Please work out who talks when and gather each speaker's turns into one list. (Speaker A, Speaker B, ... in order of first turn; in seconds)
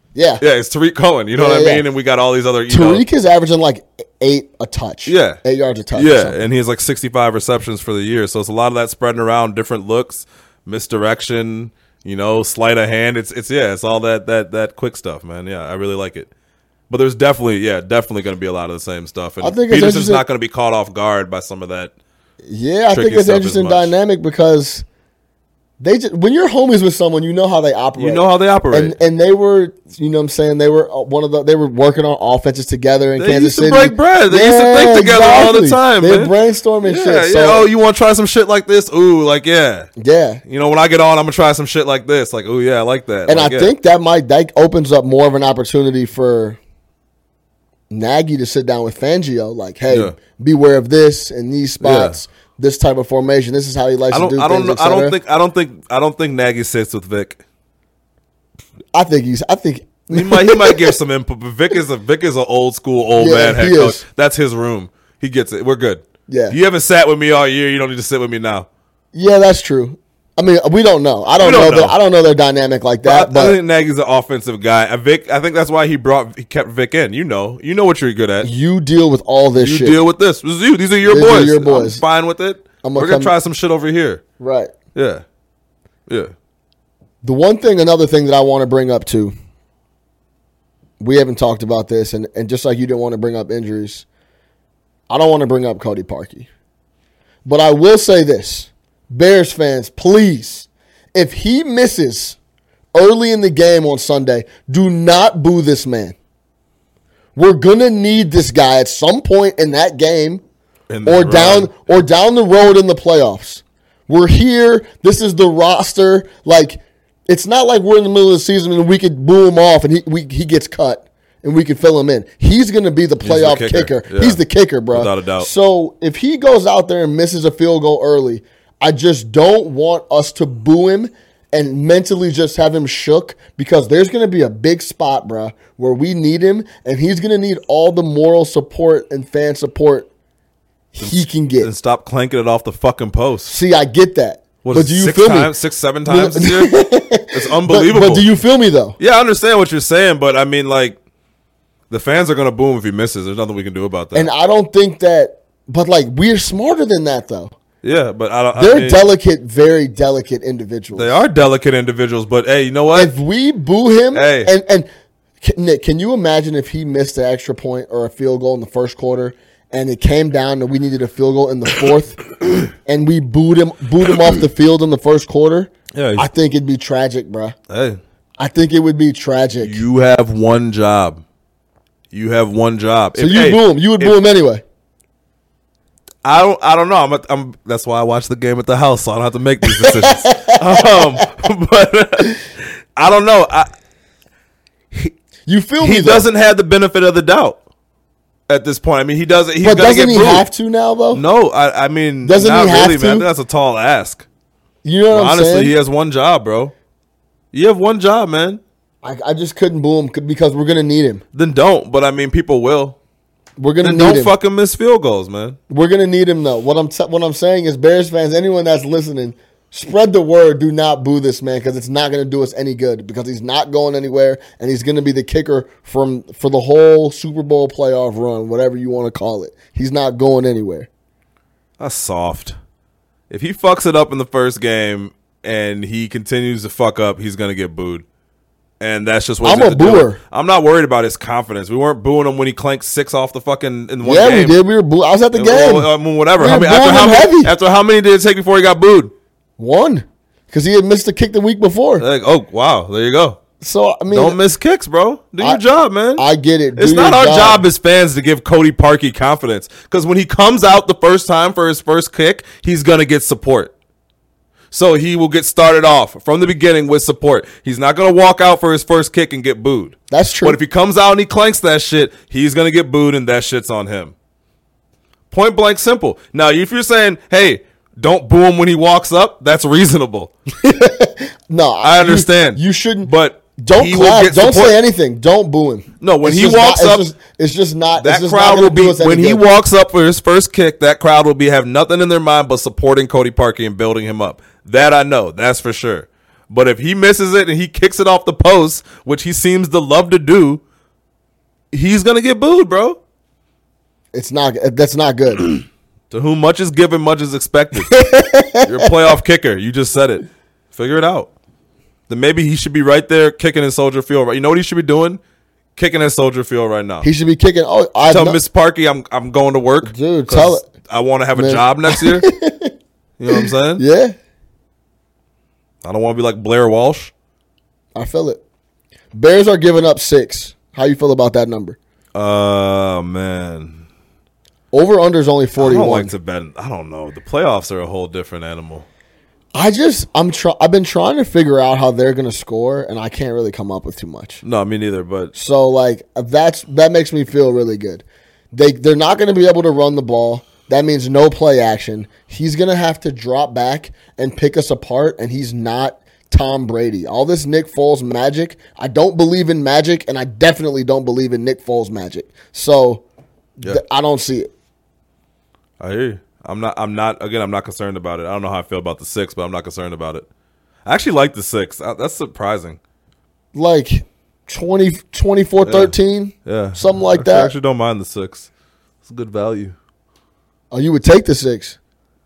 Speaker A: 0.1-0.4, 1.3-1.8, 2.7-6.4, 19.4-20.2, 22.4-24.8, 25.8-37.7, 40.0-40.4, 43.3-46.6, 47.9-55.1, 58.9-61.0, 63.2-64.0, 66.3-66.5, 69.1-73.5, 78.4-80.0, 81.0-82.0, 82.8-83.3, 84.4-84.7, 87.2-89.3, 91.0-94.0, 95.1-96.5, 97.4-102.4, 102.9-106.1, 107.3-110.4, 111.0-140.1, 140.9-141.7, 143.5-145.5, 146.1-149.0, 154.1-157.5, 158.6-161.2, 162.9-164.9, 165.4-172.2, 172.8-177.6, 178.4-179.8, 183.2-184.6, 189.7-191.3, 195.4-196.2, 199.6-201.2, 202.2-203.3, 204.8-205.7, 209.0-211.2, 213.6-214.3, 215.7-230.9, 239.4-240.2, 244.0-247.5, 249.6-252.0, 253.6-254.4, 256.1-257.6, 270.1-270.6, 280.6-289.4, 304.1-305.6, 307.8-308.9, 317.0-318.4, 319.8-320.6, 321.3-322.7, 323.3-324.1, 327.9-328.4, 329.1-331.8, 334.7-336.1, 339.5-344.4, 345.3-363.0, 363.6-364.5, 373.5-377.5, 380.7-381.8
Speaker B: 0.4-3.0, 5.0-5.4, 5.9-16.3, 16.9-21.9, 22.9-23.9, 28.0-28.9, 33.2-39.9, 40.5-43.7, 49.9-50.1, 51.8-52.2, 54.1-57.4, 60.1-68.7, 71.4-72.0, 73.0-78.5, 79.5-84.2, 84.9-85.2, 86.1-86.3, 110.9-111.7, 123.2-124.4, 124.9-125.5, 141.0-143.6, 144.6-148.2, 149.0-151.0, 151.9-154.3, 157.8-159.1, 160.9-163.1, 164.1-164.5, 175.9-176.3, 177.7-178.0, 179.6-181.2, 182.1-184.1, 186.2-193.7, 195.8-197.6, 198.5-200.5, 201.1-204.2, 205.1-206.7, 207.5-208.6, 211.3-213.0, 213.8-215.6, 231.8-232.6, 233.3-238.0, 238.8-244.6, 245.3-249.1, 252.0-253.4, 254.1-256.2, 256.8-263.7, 264.7-274.1, 275.3-280.3, 281.8-284.8, 286.0-287.1, 288.0-300.6, 301.7-303.0, 306.1-308.0, 308.6-311.3, 312.1-315.2, 315.8-317.1, 318.1-322.3, 323.2-323.8, 325.8-327.1, 332.1-333.8, 335.6-338.9, 344.4-345.3, 365.8-370.3, 370.8-372.8, 375.6-375.9, 376.4-378.5, 379.0-379.7